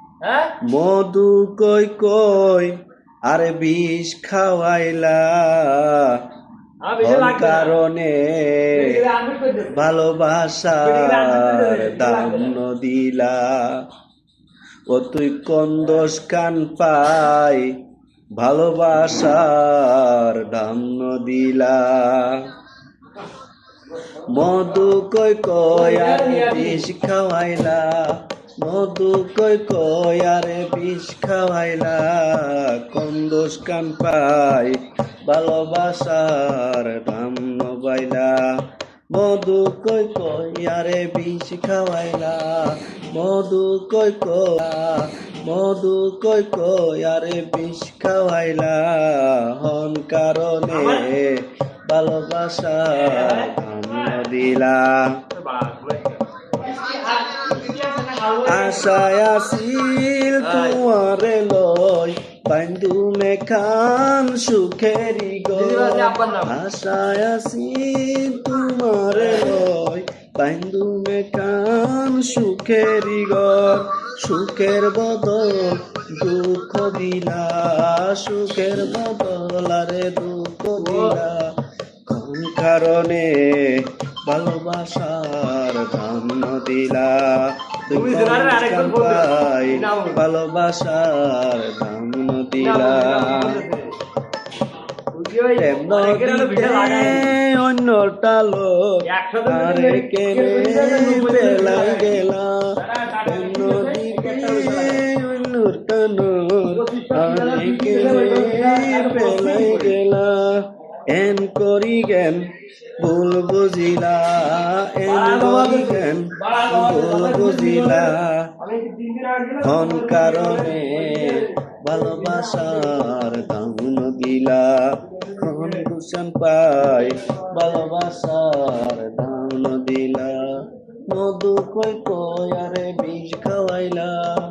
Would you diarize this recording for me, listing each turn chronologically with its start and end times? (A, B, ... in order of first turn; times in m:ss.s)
0:00.2-0:00.5 A
0:00.6-0:02.7 B
0:03.3-0:06.2 B
0:06.8-0:07.8 A
0:07.0-0:09.0 B
0:08.7-0:09.8 A
0:09.7-0:13.8 B
0:10.8-0:12.6 A
0:14.9-0:17.7 B
0:18.4-0:22.5 B
0:24.3-0:28.0 B
0:25.7-0:26.9 A
0:28.6-0:38.5 B
0:39.1-0:55.2 B
0:50.7-0:51.1 A
0:52.9-0:54.2 A
0:55.3-0:59.0 A
0:58.4-1:21.4 B
1:00.4-1:00.8 A
1:05.5-1:06.6 A
1:09.1-1:09.6 A
1:20.8-1:21.2 A
1:22.1-1:33.6 B
1:27.9-1:30.2 A
1:32.6-1:33.9 A
1:35.1-1:37.3 A
1:35.6-1:38.9 B
1:39.0-1:42.2 A
1:39.5-1:58.5 B
1:42.8-1:45.0 A
1:46.7-1:50.0 A
1:55.1-2:03.3 A
1:59.6-2:14.3 B
2:05.4-2:05.8 A